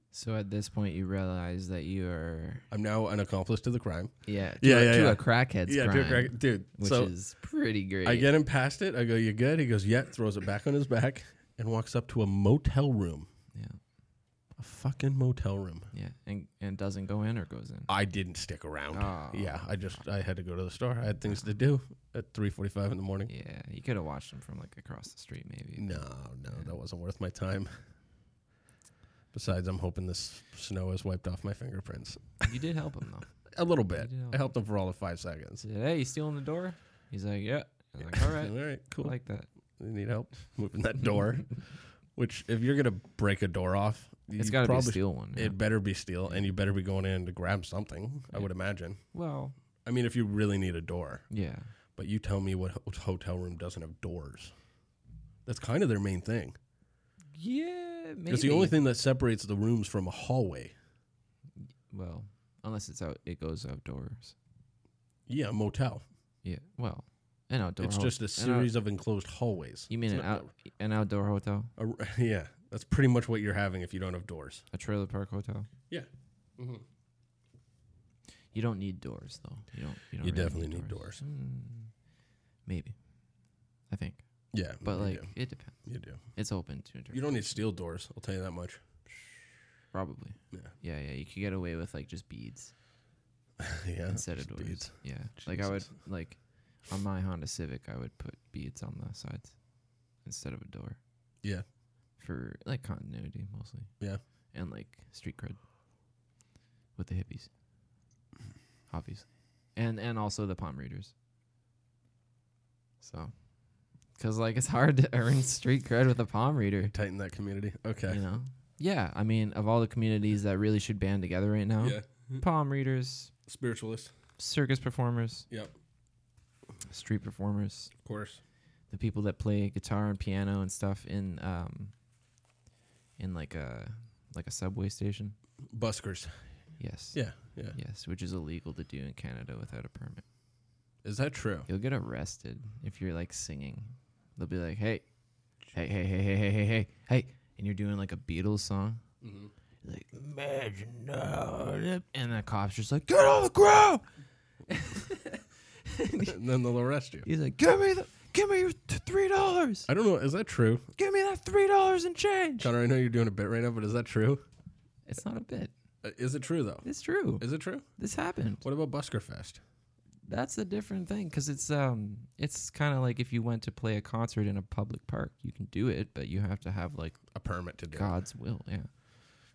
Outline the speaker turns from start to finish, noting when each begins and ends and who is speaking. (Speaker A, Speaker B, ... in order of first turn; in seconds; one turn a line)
Speaker A: 0.1-2.6
Speaker B: 2.7-7.1
Speaker A: 4.2-8.3
Speaker B: 8.0-13.3
Speaker A: 13.5-13.8
Speaker B: 14.6-15.9
Speaker A: 15.9-17.9
Speaker B: 17.9-23.3
Speaker A: 18.9-20.0
Speaker A: 23.3-26.7
Speaker B: 25.8-27.7
Speaker B: 29.3-32.4
Speaker A: 32.4-33.4
Speaker B: 33.5-35.6
Speaker A: 34.0-34.5
Speaker A: 35.6-39.5
Speaker B: 38.0-39.1
Speaker B: 39.8-41.5
Speaker B: 42.1-49.0
Speaker A: 44.4-45.6
Speaker A: 49.1-49.5
Speaker B: 49.9-51.2
Speaker A: 51.3-51.7
Speaker B: 52.0-54.5
Speaker B: 55.5-56.6
Speaker A: 57.4-58.8
Speaker B: 58.3-60.7
Speaker A: 61.9-64.4
Speaker B: 65.3-66.0
Speaker A: 66.4-68.7
Speaker B: 67.8-70.5
Speaker A: 69.9-71.7
Speaker B: 71.8-74.6
Speaker A: 74.7-75.7
Speaker B: 75.9-76.8
Speaker A: 78.5-81.9
Speaker B: 80.2-81.2
Speaker A: 82.7-83.0
Speaker A: 83.9-84.2
Speaker B: 84.5-85.3
Speaker A: 84.8-87.6
Speaker B: 85.8-86.2
Speaker B: 87.1-88.8
Speaker A: 89.9-92.7
Speaker B: 93.6-95.9
Speaker A: 94.1-99.5
Speaker A: 100.2-101.0
Speaker A: 102.2-103.9
Speaker A: 104.5-105.6
Speaker A: 107.0-107.5
Speaker A: 108.9-111.1
Speaker A: 113.0-113.3
Speaker A: 114.2-116.9
Speaker B: 116.9-118.2
Speaker A: 118.1-123.3
Speaker B: 121.8-122.4
Speaker B: 123.5-124.1
Speaker A: 124.4-125.5
Speaker A: 126.9-127.9
Speaker B: 128.0-128.4
Speaker A: 128.9-131.9
Speaker A: 133.2-135.4
Speaker B: 135.7-136.4
Speaker A: 136.8-137.2
Speaker B: 137.1-137.8
Speaker A: 137.7-140.2
Speaker B: 141.0-141.7
Speaker A: 141.7-145.0
Speaker A: 145.7-149.0
Speaker B: 149.2-149.5
Speaker A: 149.8-154.0
Speaker A: 154.7-156.4
Speaker B: 156.2-157.3
Speaker A: 157.2-159.9
Speaker B: 159.9-160.9
Speaker A: 161.0-162.7
Speaker B: 162.6-164.4
Speaker A: 165.1-165.7
Speaker B: 166.0-166.9
Speaker A: 166.8-168.6
Speaker B: 167.4-167.9
Speaker B: 168.6-169.6
Speaker A: 170.2-177.3
Speaker B: 177.3-178.1
Speaker A: 177.9-178.9